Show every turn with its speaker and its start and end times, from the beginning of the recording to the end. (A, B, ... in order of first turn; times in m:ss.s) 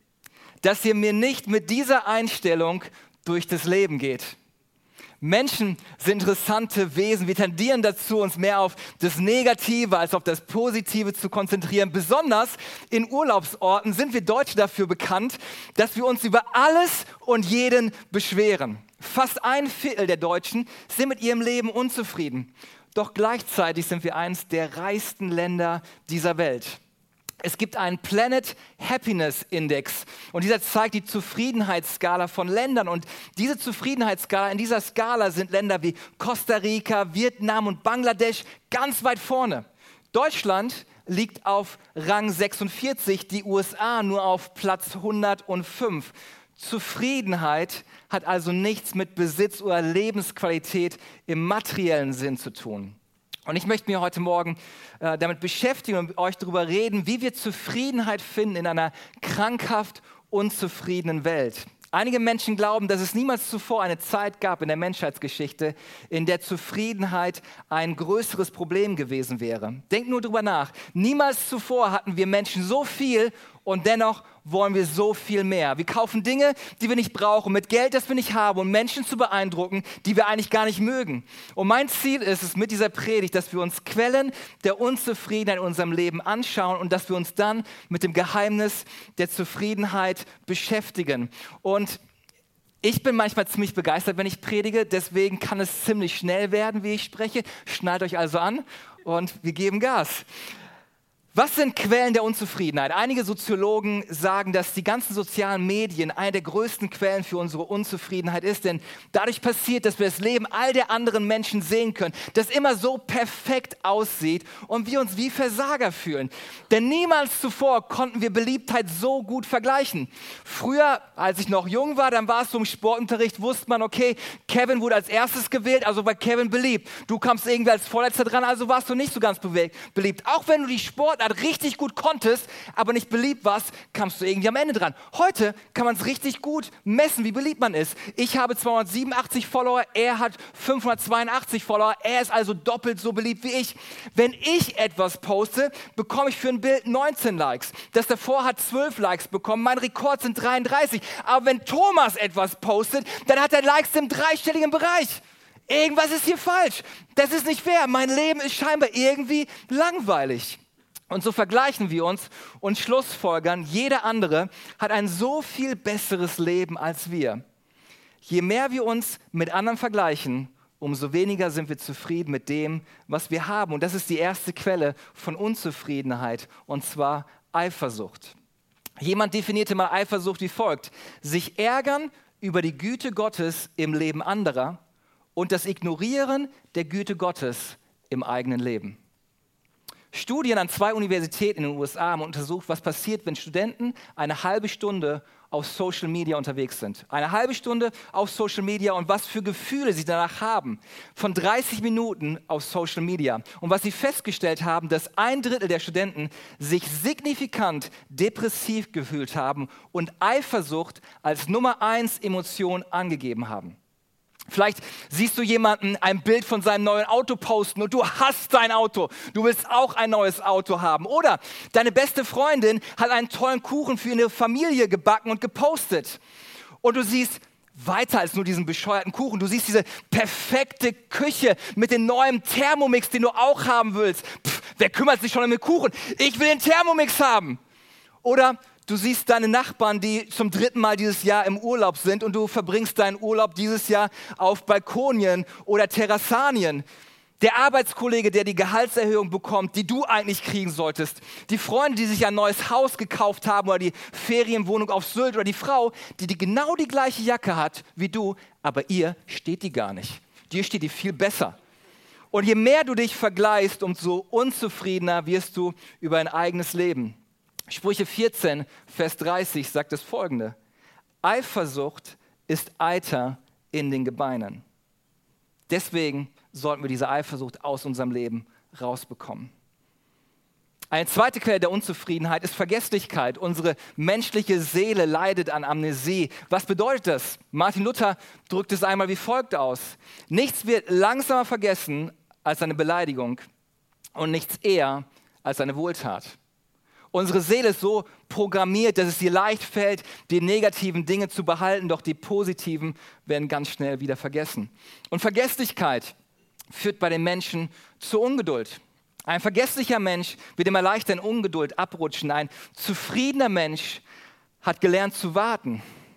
0:00.6-0:04.4 A
0:05.2-0:26.8 A
0:27.4-1:32.0 A
1:32.8-1:40.2 A
1:41.3-2:40.6 A
2:41.1-2:47.4 A
2:48.2-2:58.4 A
2:59.0-3:04.8 A
3:05.4-3:09.0 A
3:10.1-3:33.8 A
3:34.5-3:46.2 A
3:46.8-3:57.6 A
3:58.2-4:06.8 A
4:07.4-4:21.6 A
4:22.3-4:27.2 A
4:27.7-4:30.6 A
4:31.2-4:34.6 A
4:35.7-4:39.5 A
4:40.9-4:53.4 A
4:54.1-4:56.4 A
4:57.1-5:06.1 A
5:06.7-5:14.0 A
5:14.6-5:15.8 A